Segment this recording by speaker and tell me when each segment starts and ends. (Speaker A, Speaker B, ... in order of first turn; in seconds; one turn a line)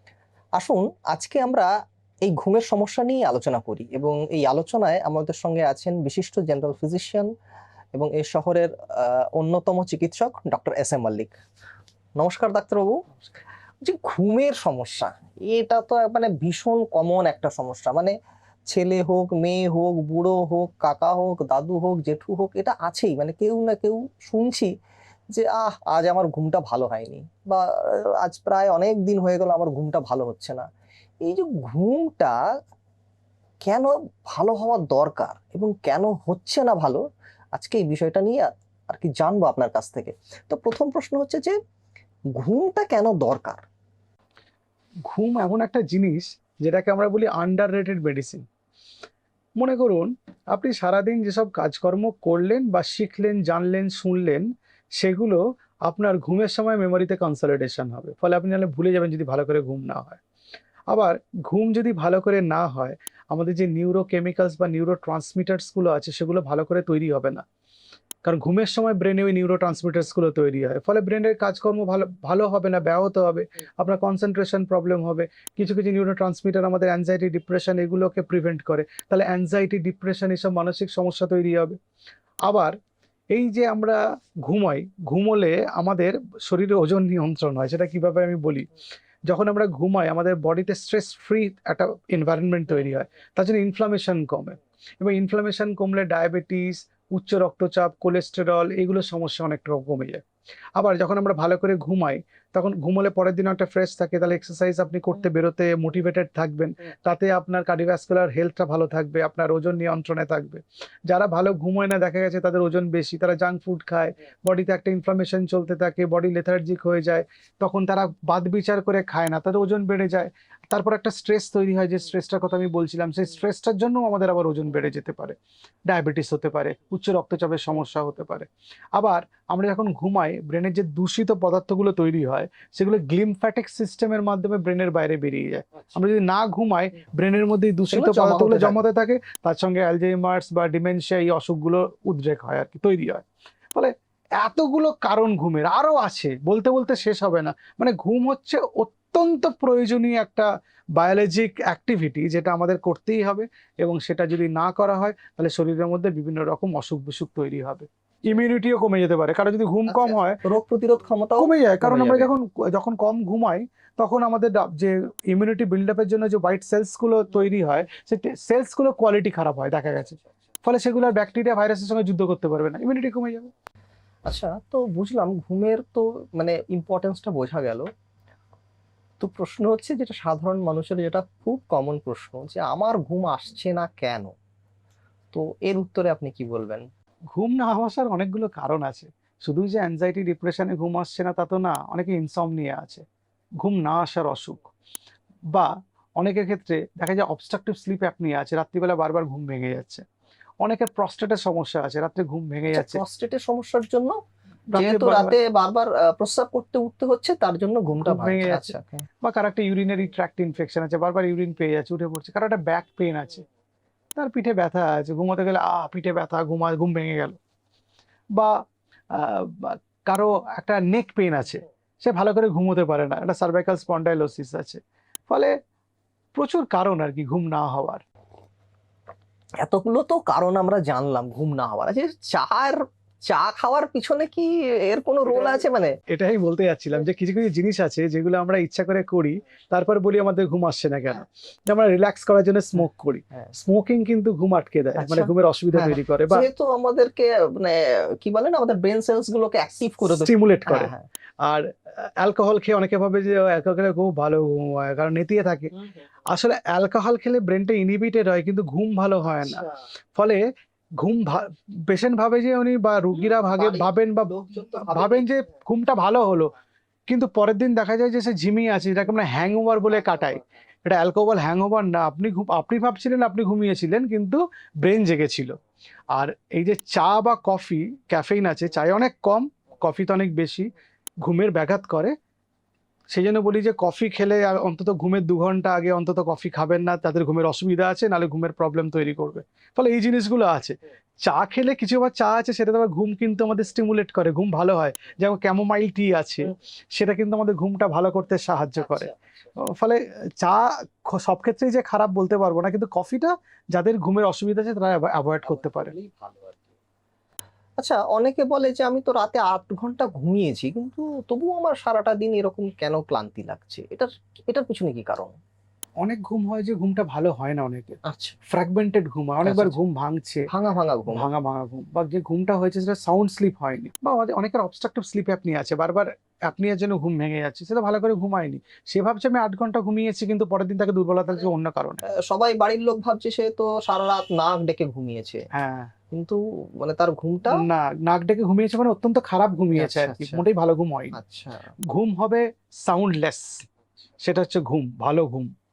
Speaker A: 0.6-1.7
Speaker A: 2.2-7.3
Speaker A: 7.9-11.3
Speaker A: 12.2-12.9
Speaker A: 13.8-18.1
Speaker A: 18.7-24.7
Speaker A: 25.3-30.7
Speaker A: 31.2-32.4
Speaker A: 33.6-37.0
Speaker A: 37.5-41.5
Speaker A: 42.3-43.6
Speaker B: 45.0-48.5
Speaker B: 49.6-60.2
Speaker B: 60.9-67.4
Speaker B: 68.2-81.8
Speaker B: 82.4-82.8
Speaker B: 83.3-88.7
Speaker B: 89.3-100.2
Speaker B: 100.8-160.4
Speaker A: 137.9-138.8
Speaker A: 159.9-162.3
Speaker B: 161.4-173.5
Speaker A: 174.3-177.8
Speaker A: 179.2-184.3
Speaker A: 185.3-186.9
Speaker B: 187.3-193.1
Speaker B: 193.6-194.7
Speaker B: 195.5-200.1
Speaker B: 200.6-203.0
Speaker A: 202.7-204.2
Speaker B: 204.7-205.4
Speaker A: 204.8-209.1
Speaker B: 208.1-208.7
Speaker B: 209.2-213.5
Speaker B: 214.2-217.4
Speaker B: 218.3-225.5
Speaker B: 226.3-228.0
Speaker A: 229.6-236.0
Speaker B: 235.3-246.4
Speaker A: 245.0-251.0
Speaker B: 250.1-255.7
Speaker B: 256.3-259.6
Speaker B: 260.1-260.4
Speaker B: 261.0-266.5
Speaker A: 263.3-265.2
Speaker B: 267.1-275.6
Speaker B: 276.1-280.7
Speaker B: 281.2-282.1
Speaker B: 283.1-306.0
Speaker A: 307.8-315.3
Speaker B: 316.0-320.5
Speaker A: 318.1-318.3
Speaker A: 319.4-319.8
Speaker A: 320.5-321.3
Speaker B: 321.1-332.0
Speaker A: 332.2-335.4
Speaker B: 335.5-335.9
Speaker A: 336.1-337.7
Speaker B: 337.5-341.1
Speaker A: 339.7-340.4
Speaker A: 341.1-341.7
Speaker B: 341.8-343.7
Speaker B: 344.2-345.5